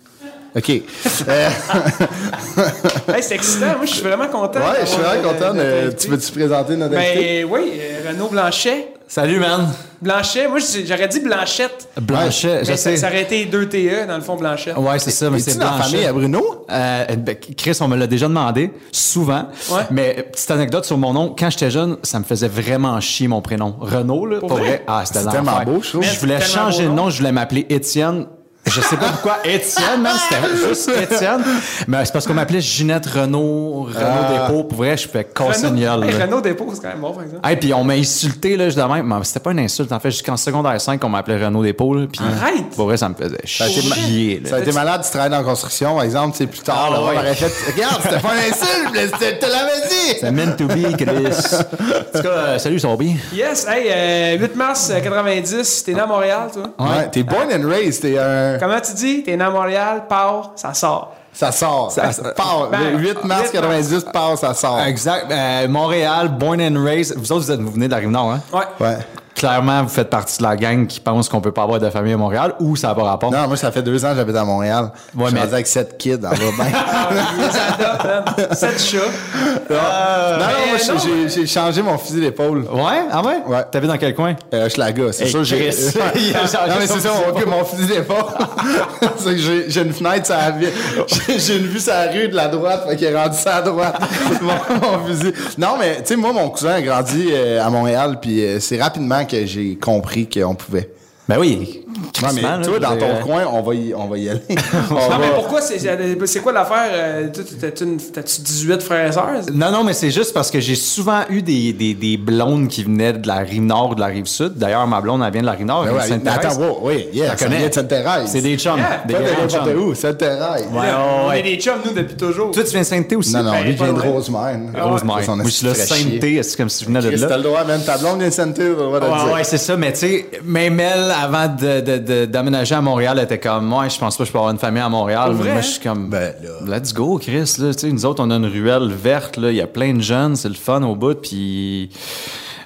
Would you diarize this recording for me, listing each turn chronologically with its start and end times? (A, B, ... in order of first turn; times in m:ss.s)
0:00.5-0:03.2 A
0:03.1-0:06.2 B
0:04.5-0:07.3 A
0:06.9-0:08.9 B
0:09.1-0:09.8 C
0:10.0-0:12.0 B
0:12.0-0:13.1 C
0:12.1-0:12.4 A
0:12.6-0:14.8 B
0:14.7-0:16.1 C
0:15.1-0:16.6 A
0:16.7-0:36.3 C
0:24.4-0:24.8 B
0:25.1-0:26.2 A
0:26.0-0:27.1 B
0:28.8-0:29.2 A
0:29.8-0:31.2 A
0:34.0-0:34.6 A
0:35.4-0:37.4 B
0:37.4-0:44.7 C
0:42.2-0:42.8 B
0:43.6-0:52.2 A
0:43.6-0:44.2 B
0:46.7-0:48.2 C
0:50.2-0:53.3 C
0:53.3-0:57.5 B
0:56.8-0:57.1 C
0:56.8-0:58.6 A
0:58.6-1:01.1 B
1:01.4-1:04.9 A
1:01.9-1:02.2 C
1:02.0-1:03.8 B
1:04.8-1:08.4 C
1:08.8-1:09.1 A
1:09.3-1:13.4 C
1:13.3-1:22.7 A
1:15.1-1:15.5 C
1:16.4-1:17.2 C
1:16.7-1:19.2 B
1:19.7-1:20.6 C
1:20.4-1:21.4 B
1:22.7-1:24.4 C
1:23.4-1:23.7 A
1:24.5-1:40.9 A
1:25.2-1:27.6 C
1:41.3-1:43.3 C
1:42.2-1:45.5 A
1:44.6-1:45.4 C
1:45.0-1:49.5 B
1:49.5-1:56.6 C
1:55.8-1:58.4 A
1:57.2-1:57.8 C
1:58.3-1:59.8 C
1:58.7-1:59.0 B
1:59.1-2:00.8 A
2:00.7-2:01.5 C
2:00.8-2:02.6 B
2:02.5-2:03.6 C
2:03.3-2:06.2 A
2:03.5-2:04.2 B
2:04.7-2:05.1 B
2:04.7-2:07.4 C
2:06.9-2:09.4 A
2:09.0-2:21.9 C
2:15.2-2:15.8 B
2:16.1-2:16.7 A